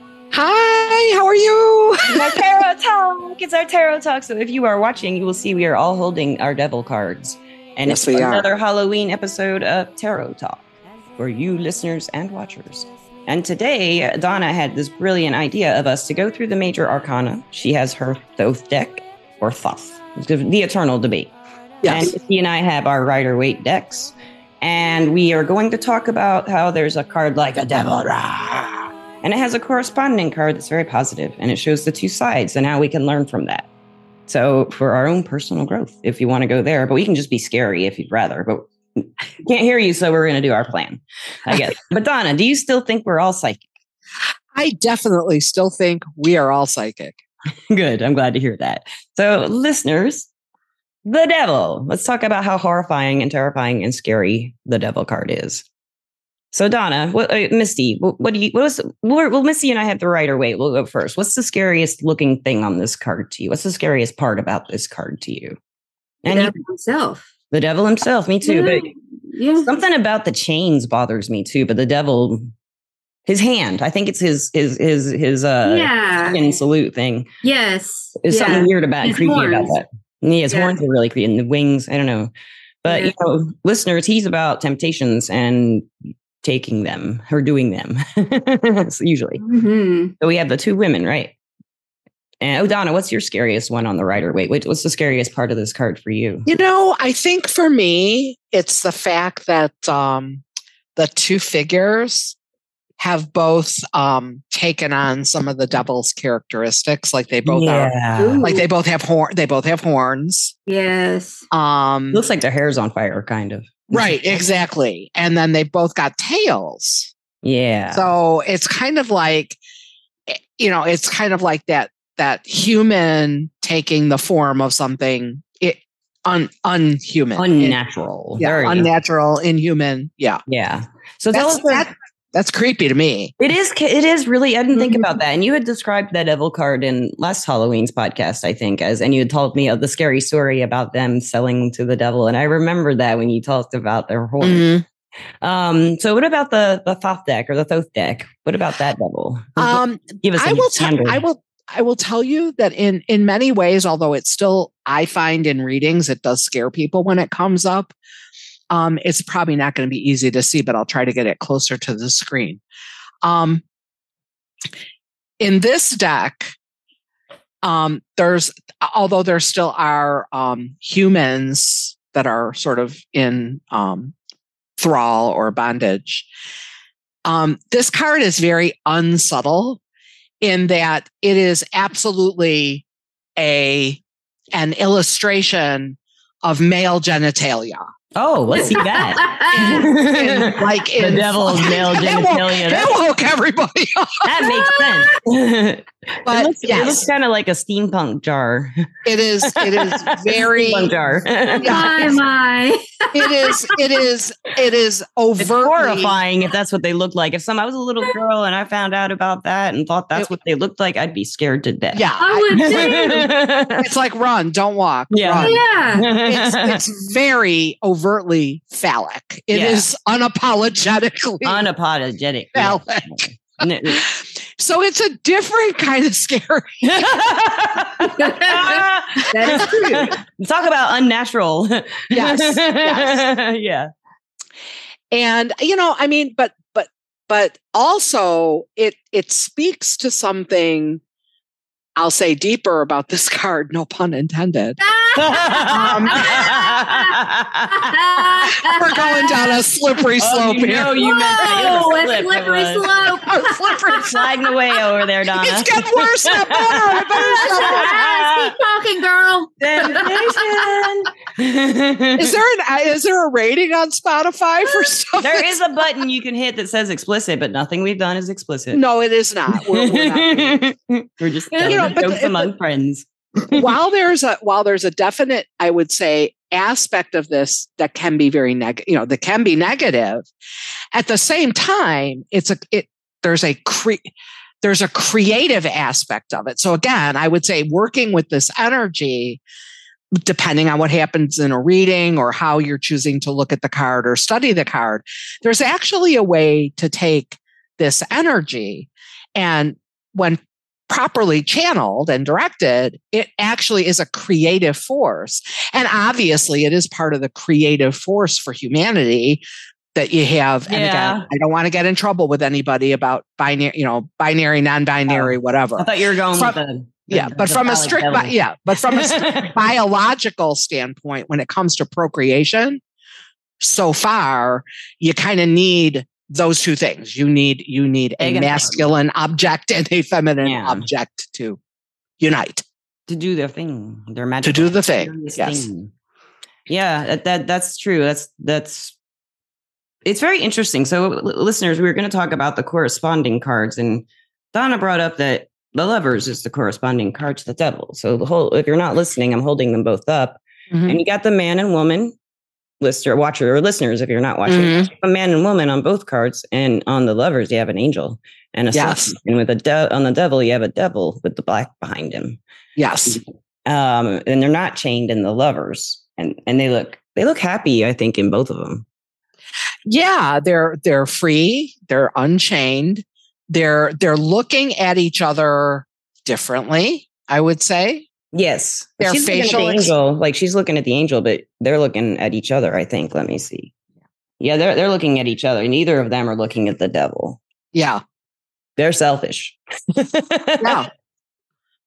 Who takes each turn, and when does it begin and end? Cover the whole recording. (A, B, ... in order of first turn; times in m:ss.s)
0:00.3-0:02.4 A
0:02.1-0:10.6 B
0:07.8-0:08.4 A
0:11.2-0:21.3 B
0:21.8-0:22.1 A
0:21.8-0:33.7 B
0:34.3-0:43.6 B
0:44.5-0:47.2 A
0:47.7-0:50.3 B
0:51.0-0:55.6 B
0:56.5-1:05.6 B
1:06.2-1:06.5 B
1:06.3-1:07.3 C
1:07.5-1:08.9 B
1:08.4-1:09.7 C
1:09.6-1:12.5 B
1:13.2-1:17.3 B
1:15.6-1:16.5 C
1:17.4-1:19.8 C
1:18.2-1:22.3 B
1:20.5-1:20.7 C
1:22.8-1:25.9 B
1:26.4-1:29.4 B
1:29.4-1:30.1 C
1:30.2-1:31.3 B
1:32.4-1:36.5 B
1:36.4-1:40.4 A
1:41.0-1:42.4 A
1:43.0-1:50.5 A
1:47.4-1:48.4 B
1:48.2-1:48.7 C
1:50.7-1:51.4 C
1:51.5-1:52.2 A
1:52.1-1:54.4 B
1:53.9-1:57.1 A
1:57.4-1:58.0 B
1:57.9-1:59.6 A
2:00.3-2:07.8 A
2:07.4-2:08.9 B
2:08.4-2:10.4 A
2:10.5-2:11.9 B
2:11.3-2:13.3 A
2:13.4-2:24.7 B
2:24.4-2:24.8 A
2:25.4-2:31.2 B
2:29.6-2:37.9 A
2:38.7-2:42.6 A
2:43.2-2:43.6 A
2:45.4-2:46.5 A
2:47.6-2:54.1 A
2:54.8-2:56.3 A
2:57.2-2:59.8 A
3:00.4-3:02.8 A
3:03.4-3:04.0 A
3:04.5-3:07.8 A
3:08.1-3:12.9 B
3:08.5-3:09.8 C
3:09.5-3:14.5 A
3:14.2-3:18.9 B
3:14.5-3:15.1 C
3:16.2-3:17.1 A
3:19.0-3:22.2 A
3:19.4-3:22.1 B
3:21.6-3:23.8 C
3:23.1-3:26.2 A
3:25.4-3:33.9 B
3:31.9-3:33.2 A
3:32.2-3:33.3 C
3:33.8-3:35.6 A
3:35.1-3:36.8 B
3:35.4-3:36.1 C
3:36.2-3:41.6 A
3:39.5-3:39.8 B
3:41.4-3:44.1 B
3:42.5-3:43.2 A
3:43.9-3:47.5 A
3:46.8-3:53.9 B
3:48.2-3:50.1 C
3:49.5-3:50.1 A
3:52.1-3:53.2 A
3:55.1-4:01.0 A
4:02.0-4:04.8 A
4:04.8-4:07.2 C
4:05.1-4:08.5 B
4:05.6-4:06.5 A
4:07.7-4:09.6 C
4:08.7-4:11.8 A
4:10.2-4:13.2 B
4:11.0-4:14.0 C
4:13.2-4:14.2 A
4:13.9-4:18.6 B
4:15.4-4:18.0 A
4:17.3-4:20.7 C
4:19.6-4:22.4 B
4:22.2-4:25.5 A
4:24.6-4:24.9 C
4:25.2-4:28.8 B
4:28.7-4:30.6 A
4:29.5-4:33.7 B
4:31.5-4:32.0 C
4:31.6-4:32.5 A
4:33.5-4:40.3 A
4:40.9-4:44.1 A
4:44.6-4:49.4 A
4:50.1-5:09.4 A
5:09.9-5:16.6 A
5:10.7-5:11.3 B
5:15.1-5:19.6 B
5:17.1-5:22.8 A
5:23.6-5:31.6 A
5:28.2-5:28.9 B
5:30.4-5:30.9 B
5:32.2-5:32.6 A
5:33.1-5:35.9 B
5:34.4-5:35.7 A
5:36.7-5:39.0 B
5:40.0-5:52.1 B
5:50.7-5:51.0 A
5:52.8-6:02.4 B
5:54.4-5:54.9 A
5:58.7-5:59.1 A
6:02.8-6:03.2 A
6:03.1-6:08.8 B
6:09.8-6:18.1 A
6:18.3-6:23.7 B
6:19.0-6:19.9 A
6:24.4-6:27.4 B
6:27.7-6:28.0 A
6:28.8-6:30.8 B
6:30.6-6:30.9 A